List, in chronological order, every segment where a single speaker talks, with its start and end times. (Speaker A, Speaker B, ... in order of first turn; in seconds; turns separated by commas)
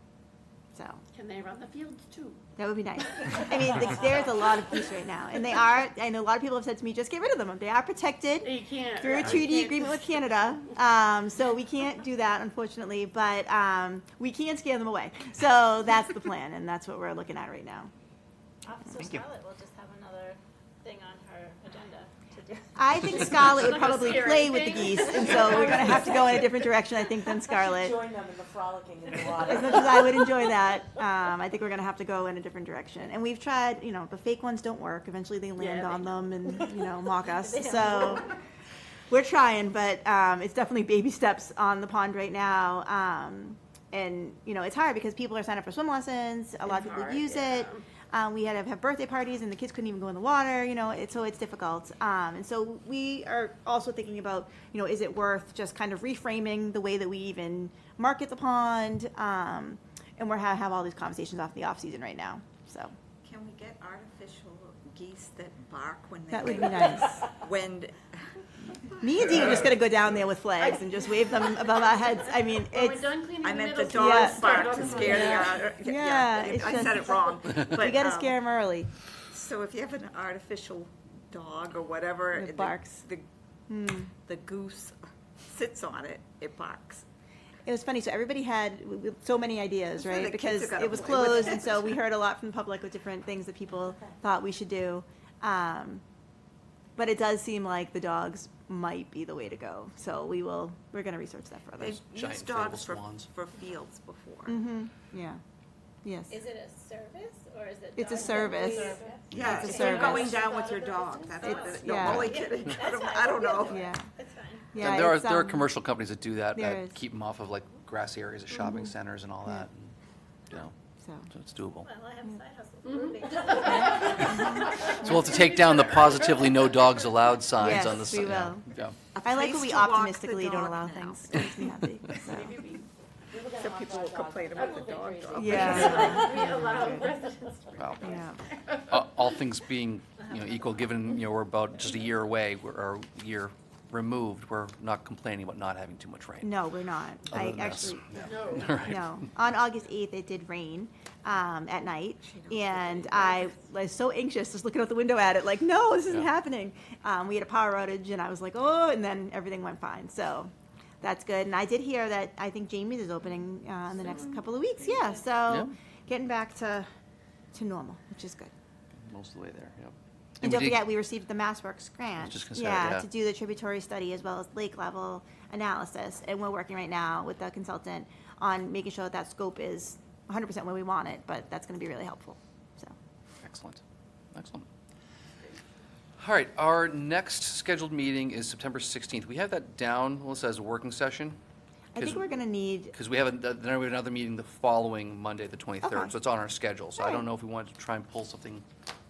Speaker A: 0.7-1.0, Speaker B: 1.1-2.4, Speaker A: 2.6-17.9, Speaker B: 3.2-3.4, Speaker B: 8.4-10.2, Speaker C: 18.6-23.9, Speaker A: 22.8-28.1, Speaker B: 23.1-25.8, Speaker D: 25.4-26.7, Speaker D: 27.5-30.5, Speaker A: 29.3-38.3, Speaker C: 35.6-36.1, Speaker C: 37.0-38.3, Speaker A: 39.1-63.0, Speaker B: 46.7-47.8, Speaker E: 63.2-69.7, Speaker A: 66.3-67.3, Speaker A: 69.0-73.1, Speaker B: 70.7-71.5, Speaker B: 72.6-75.8, Speaker E: 73.4-78.4, Speaker A: 73.9-78.9, Speaker E: 79.3-83.3, Speaker A: 82.3-83.0, Speaker A: 83.7-84.1, Speaker E: 84.1-87.1, Speaker A: 87.7-96.0, Speaker E: 90.0-92.0, Speaker A: 97.0-102.0, Speaker E: 101.8-104.6, Speaker F: 102.1-103.3, Speaker A: 104.5-105.4, Speaker A: 106.0-106.4, Speaker C: 106.3-114.7, Speaker A: 108.0-110.3, Speaker D: 108.2-109.8, Speaker E: 109.3-113.8, Speaker A: 111.4-112.5, Speaker F: 112.0-112.4, Speaker A: 113.6-114.1, Speaker A: 114.7-115.7, Speaker F: 114.8-120.0, Speaker A: 116.5-117.0, Speaker A: 118.5-119.7, Speaker A: 121.0-121.3, Speaker F: 121.3-121.9, Speaker C: 121.8-124.5, Speaker B: 122.9-124.2, Speaker A: 123.9-125.3, Speaker F: 124.0-129.0, Speaker A: 127.6-128.7, Speaker E: 129.1-131.7, Speaker A: 129.2-132.6, Speaker B: 132.2-132.8, Speaker D: 133.3-137.2, Speaker E: 133.5-136.5, Speaker A: 135.4-137.1, Speaker B: 135.6-139.0, Speaker F: 137.8-138.2, Speaker A: 138.0-138.5, Speaker F: 138.9-146.5, Speaker A: 146.4-160.5, Speaker F: 147.3-149.2, Speaker B: 148.2-149.0, Speaker E: 152.2-153.6, Speaker A: 161.0-166.9, Speaker A: 167.5-168.5, Speaker F: 168.9-170.9, Speaker A: 170.4-182.9, Speaker F: 172.2-173.1, Speaker F: 183.4-183.8, Speaker F: 184.3-184.7, Speaker F: 186.2-191.4, Speaker A: 191.9-192.9, Speaker F: 192.0-192.2, Speaker F: 192.9-198.7, Speaker A: 195.8-196.2, Speaker A: 197.0-197.3